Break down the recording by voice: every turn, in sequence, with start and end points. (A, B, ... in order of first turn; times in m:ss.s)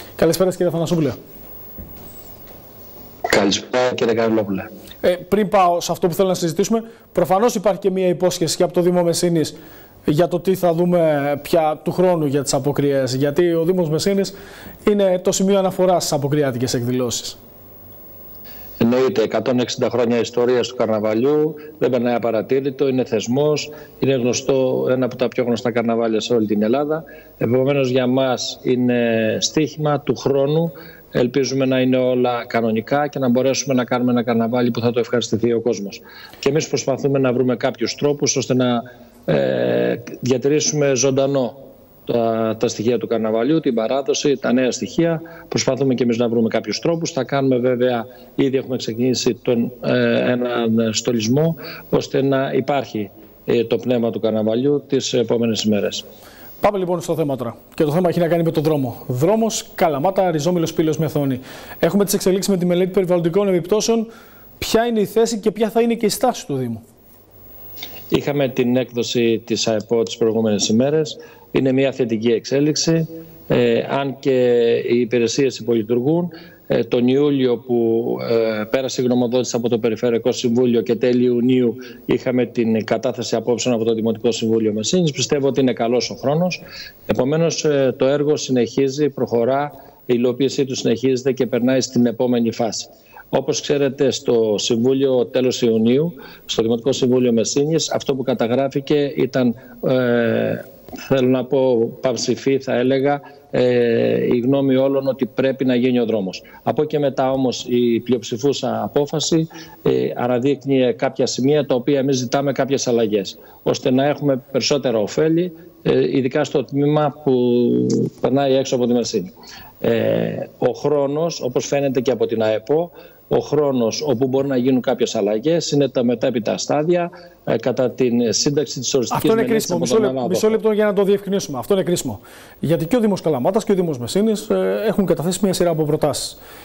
0:00.2-0:01.2 A
0:03.3-0:04.7 B
0:05.0-0:09.6 A
0:10.1-0:14.3 A
0:14.8-0:17.4 A
0:18.8-0:41.6 B
0:42.1-0:56.0 B
0:56.6-1:04.1 A
1:04.6-1:06.8 A
1:08.1-2:10.6 B
2:09.1-2:16.4 A